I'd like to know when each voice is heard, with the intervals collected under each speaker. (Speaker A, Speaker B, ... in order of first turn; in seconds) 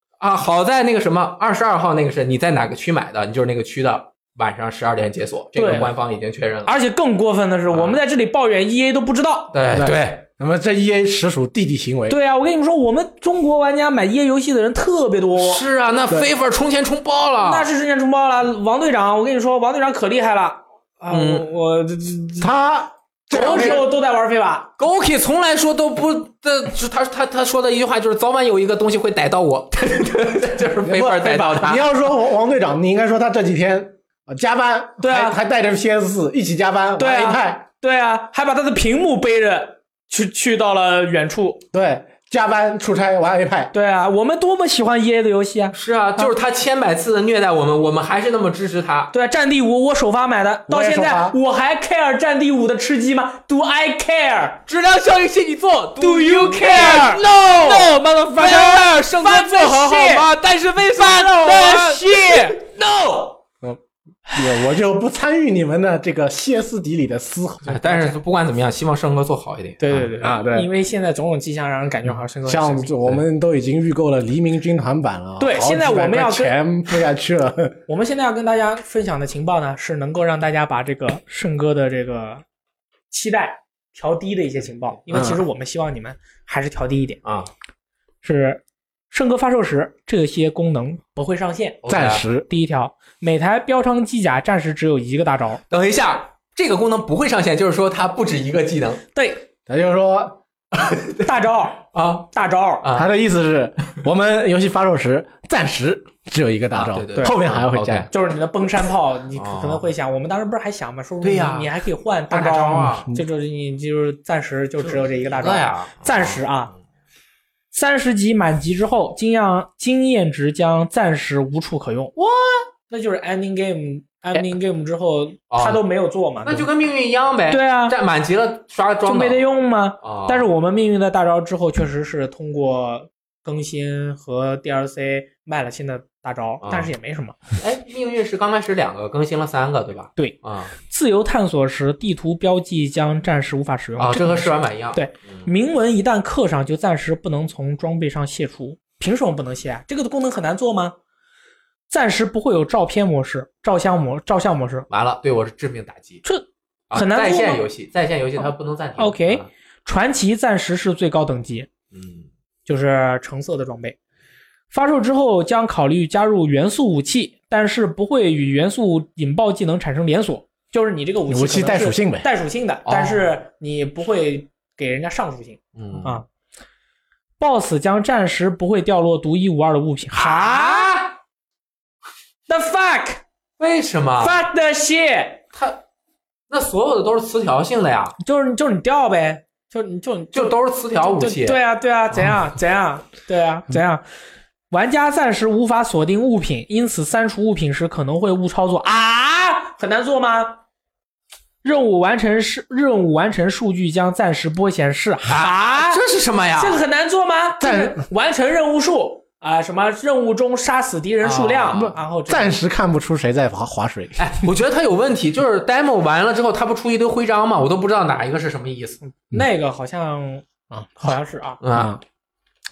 Speaker A: 0.2-6.8, 7.7-8.0, 9.5-10.1, 15.4-17.7, 21.1-21.5, 23.3-23.9, 24.8-31.9, 45.7-49.1, 54.7-63.3, 67.7-70.1, 87.2-87.5, 91.8-92.2, 95.7-99.0, 100.8-101.2, 101.9-102.3, 102.8-103.1, 106.8-108.1, 109.3-109.9, 111.2-111.7, 112.3-113.1, 114.8-116.4, 122.2-122.7, 125.5-125.8, 126.5-129.4, 130.0-130.5, 136.6-136.9, 137.6-140.8, 144.0-145.5, 154.9-156.2, 156.9-159.5, 161.9-162.3, 172.8-173.3, 175.8-176.2, 180.1-181.2, 183.6-184.4, 185.5-185.8, 186.5-188.2, 190.3-191.6, 205.3-206.8, 211.2-211.9, 214.2-219.0, 221.6-222.0
Speaker B: 5.6-5.9, 6.7-9.6, 12.1-15.6, 17.4-22.5, 23.3-24.7, 35.0-35.4, 37.0-41.6, 43.7-45.8, 49.1-54.6, 56.0-60.3, 60.9-62.6, 69.8-72.9, 75.4-76.5, 77.9-82.4, 83.1-87.2, 88.2-91.8, 92.5-95.6, 99.2-99.4, 101.2-102.9, 108.1-116.7, 117.7-122.1, 122.9-126.7, 127.5-128.0, 129.1-137.4, 140.2-150.9, 151.9-154.9, 156.2-157.7, 159.0-161.7, 162.7-164.0, 164.7-176.2, 177.4-181.0, 182.5-183.2, 184.2-185.4, 188.2-194.0, 194.7-200.6, 201.6-206.0, 206.6-212.6, 219.0-220.5, 221.0-221.6
Speaker C: 9.7-12.2, 22.4-23.8, 30.8-37.6, 41.7-43.7, 50.7-51.4, 63.6-68.1, 70.2-70.7, 72.5-77.8, 85.1-85.4, 91.9-92.5, 99.7-100.4, 102.9-108.1, 171.3-172.3, 207.6-208.0, 211.7-214.5, 220.7-221.1, 221.7-222.0